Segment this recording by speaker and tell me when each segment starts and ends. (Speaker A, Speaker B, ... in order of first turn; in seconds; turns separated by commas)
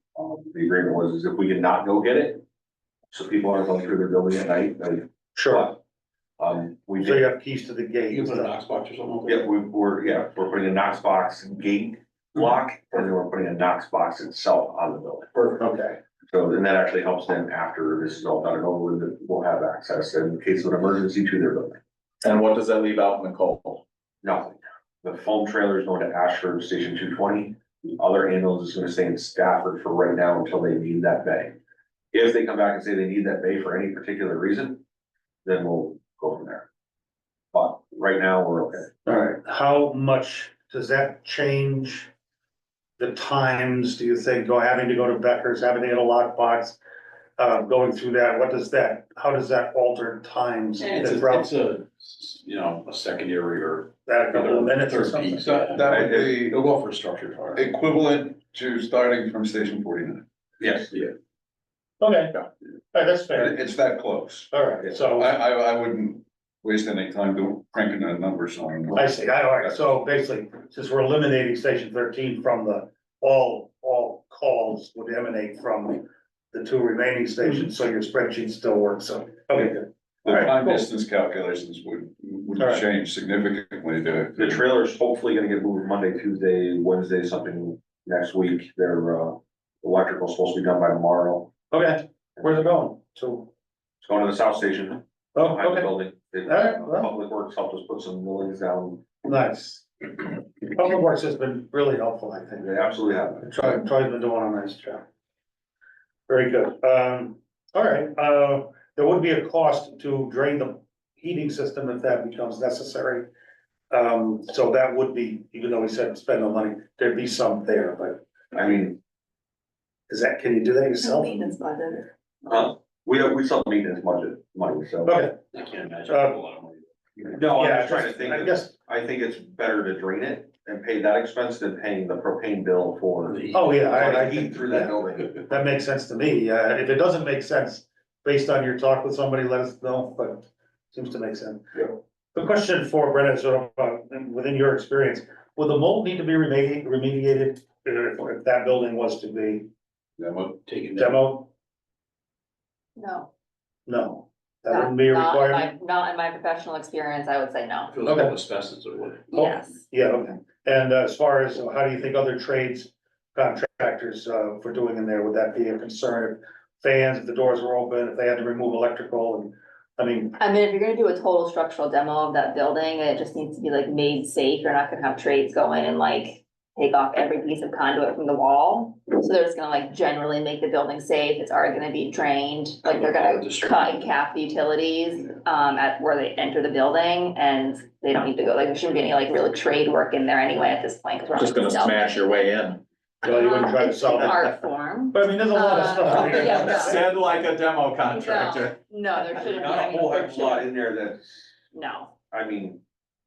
Speaker A: 0.2-2.4, Speaker A: 3.1-5.8, Speaker B: 5.3-5.7, Speaker A: 6.4-7.3, Speaker B: 7.0-8.6, Speaker C: 8.1-9.4, Speaker A: 9.3-15.3, Speaker B: 15.4-16.0, Speaker A: 16.3-21.8, Speaker D: 22.2-23.8, Speaker A: 24.2-31.6, Speaker A: 32.1-34.8, Speaker A: 35.5-36.7, Speaker A: 37.5-38.9, Speaker B: 39.0-42.1, Speaker B: 43.0-46.8, Speaker B: 47.4-51.5, Speaker C: 50.8-57.7, Speaker B: 54.1-55.8, Speaker E: 55.4-56.6, Speaker A: 55.9-56.4, Speaker E: 57.5-60.2, Speaker A: 60.6-60.9, Speaker B: 62.0-63.6, Speaker E: 63.3-64.5, Speaker B: 64.5-65.3, Speaker E: 65.1-69.1, Speaker B: 68.9-80.8, Speaker E: 80.2-84.6, Speaker B: 82.6-82.8, Speaker A: 84.4-91.5, Speaker B: 91.7-93.5, Speaker A: 94.0-99.0, Speaker B: 95.3-95.9, Speaker B: 96.5-97.1, Speaker B: 99.2-102.7, Speaker A: 102.6-103.5, Speaker B: 103.4-105.0, Speaker B: 106.3-113.3, Speaker B: 113.9-118.2, Speaker A: 118.5-119.0, Speaker B: 120.1-121.5, Speaker F: 121.0-122.1, Speaker A: 122.5-125.1, Speaker B: 125.0-125.4, Speaker C: 125.5-127.3, Speaker B: 126.0-126.4, Speaker A: 127.3-135.4, Speaker B: 127.5-128.7, Speaker C: 133.3-133.7, Speaker B: 133.5-149.7, Speaker C: 150.2-151.2, Speaker B: 151.0-151.5, Speaker F: 153.0-153.3, Speaker B: 153.9-155.7, Speaker F: 154.7-157.9, Speaker C: 157.9-159.3, Speaker B: 158.0-158.3, Speaker F: 159.3-159.8, Speaker B: 159.3-170.4, Speaker F: 170.4-192.3, Speaker C: 182.8-184.1, Speaker D: 191.3-192.8, Speaker B: 193.2-194.4, Speaker F: 193.3-197.0, Speaker B: 195.1-197.0, Speaker D: 196.1-198.8, Speaker F: 198.1-200.7, Speaker A: 199.3-201.5, Speaker F: 201.7-202.1, Speaker A: 202.3-202.8